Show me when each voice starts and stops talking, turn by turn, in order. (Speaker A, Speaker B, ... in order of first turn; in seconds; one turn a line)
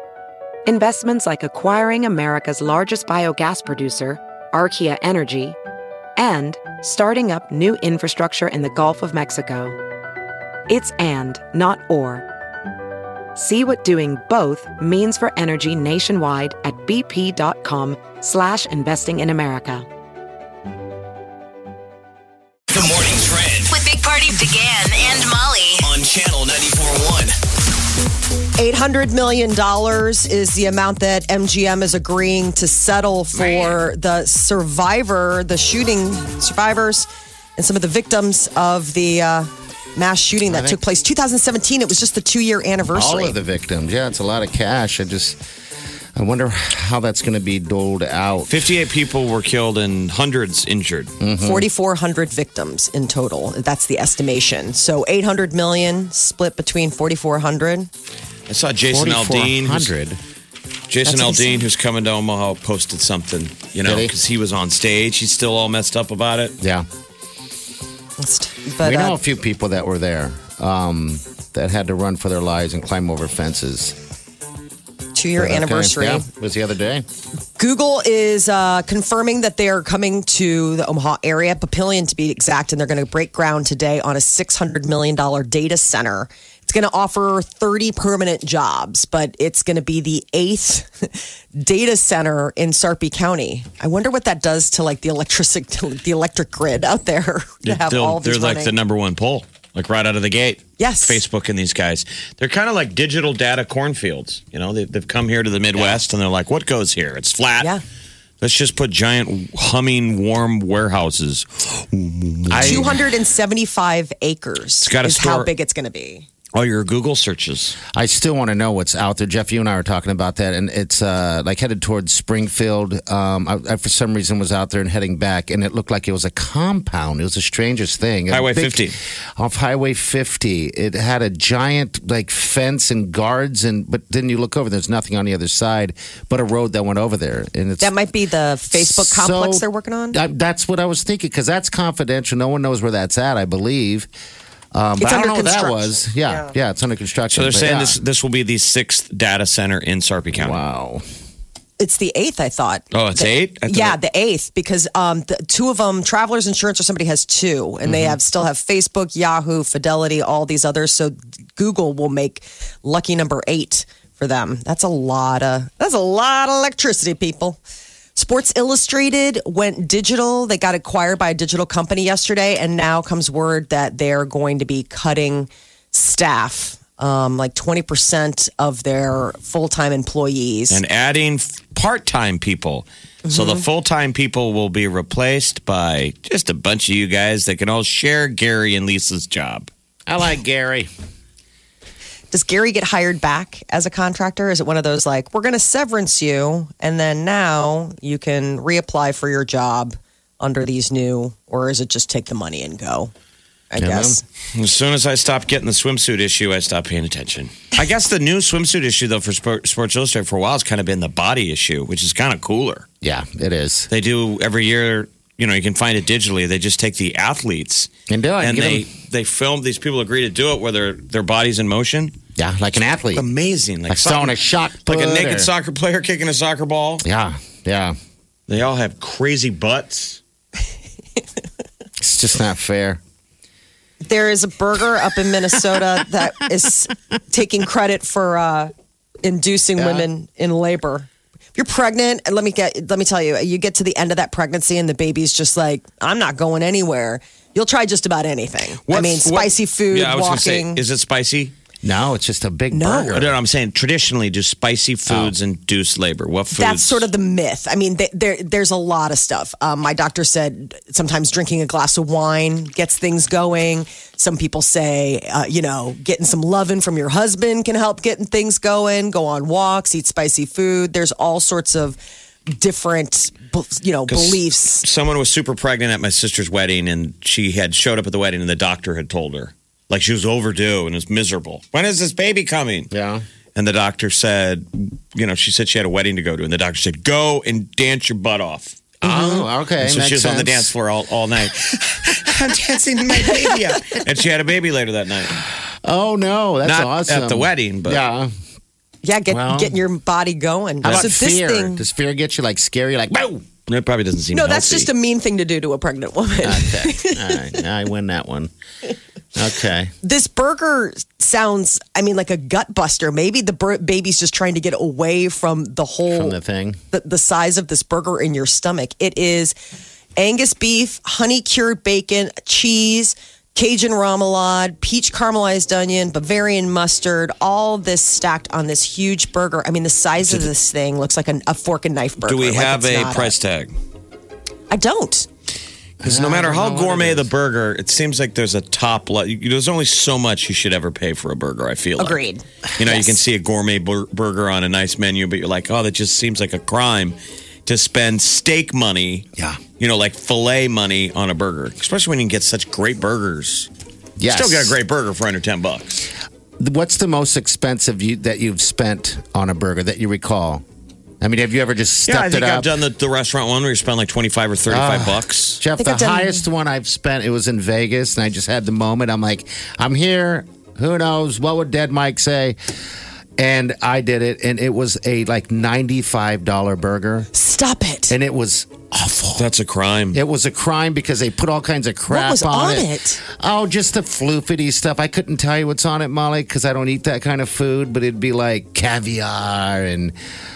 Speaker A: 0.7-5.6
Speaker A: 6.2-9.7
Speaker A: 10.7-12.2
Speaker A: 13.3-19.9
Speaker B: 22.7-23.7
Speaker C: 23.7-25.9
Speaker B: 25.8-27.3
Speaker D: 28.6-43.4
Speaker E: 33.3-33.8
Speaker E: 40.5-40.8
Speaker E: 42.9-45.4
Speaker E: 46.1-48.6
Speaker F: 48.5-51.1
Speaker E: 51.2-51.6
Speaker D: 51.4-57.9
Speaker F: 58.5-59.9
Speaker E: 58.9-60.2
Speaker F: 60.9-66.6
Speaker D: 61.0-61.6
Speaker E: 63.8-64.1
Speaker E: 66.6-66.9
Speaker D: 68.2-69.2
Speaker E: 68.8-74.0
Speaker D: 75.1-76.2
Speaker E: 75.4-77.0
Speaker D: 77.6-98.7
Speaker F: 97.6-107.7
Speaker D: 100.8-101.2
Speaker F: 108.4-112.9
Speaker E: 112.5-113.0
Speaker D: 112.6-116.3
Speaker F: 114.8-115.5
Speaker F: 116.5-117.8
Speaker E: 117.9-137.9
Speaker F: 128.3-128.9
Speaker D: 137.8-140.2
Speaker E: 138.7-144.1
Speaker E: 144.7-148.0
Speaker D: 145.0-146.5
Speaker F: 147.3-150.6
Speaker E: 150.3-151.0
Speaker D: 151.8-167.6
Speaker F: 152.9-154.0
Speaker D: 168.2-180.8
Speaker F: 180.7-189.7
Speaker D: 183.2-183.6
Speaker E: 190.1-190.9
Speaker D: 192.3-203.1
Speaker D: 203.7-204.2
Speaker E: 203.8-204.2
Speaker F: 204.5-212.8
Speaker E: 213.0-213.9
Speaker F: 213.9-217.9
Speaker E: 218.1-218.8
Speaker F: 218.4-222.1
Speaker E: 222.3-223.3
Speaker F: 223.1-227.0
Speaker E: 223.9-225.5
Speaker E: 227.0-227.9
Speaker F: 228.5-230.2
Speaker E: 232.0-233.0
Speaker D: 234.0-238.7
Speaker D: 239.2-250.8
Speaker E: 239.8-240.1
Speaker F: 248.9-251.5
Speaker E: 251.8-253.3
Speaker D: 252.7-253.2
Speaker F: 253.1-257.1
Speaker E: 255.1-255.3
Speaker D: 256.5-272.0
Speaker D: 272.5-274.8
Speaker F: 274.1-282.9
Speaker E: 282.9-283.2
Speaker F: 283.5-295.4
Speaker E: 289.0-290.7
Speaker E: 292.2-294.0
Speaker E: 295.8-298.3
Speaker F: 296.6-298.0
Speaker D: 299.0-301.8
Speaker E: 299.3-299.8
Speaker E: 300.8-303.4
Speaker F: 303.7-304.9
Speaker D: 304.3-307.5
Speaker E: 306.4-308.5
Speaker E: 309.3-309.9
Speaker D: 310.0-316.4
Speaker E: 316.1-316.8
Speaker D: 316.9-319.5
Speaker D: 320.2-333.3
Speaker F: 332.2-333.7
Speaker D: 334.7-335.3
Speaker E: 336.0-337.3
Speaker F: 336.0-342.2
Speaker D: 342.0-343.1
Speaker F: 342.8-349.3
Speaker F: 349.8-353.7
Speaker E: 354.2-354.8
Speaker F: 354.2-356.1
Speaker E: 356.6-360.6
Speaker E: 361.2-362.7
Speaker F: 362.1-365.6
Speaker E: 364.7-372.6
Speaker D: 365.8-366.4
Speaker E: 373.4-377.3
Speaker D: 377.3-378.1
Speaker E: 378.1-379.4
Speaker F: 379.4-380.2
Speaker E: 380.1-390.1
Speaker D: 382.1-383.2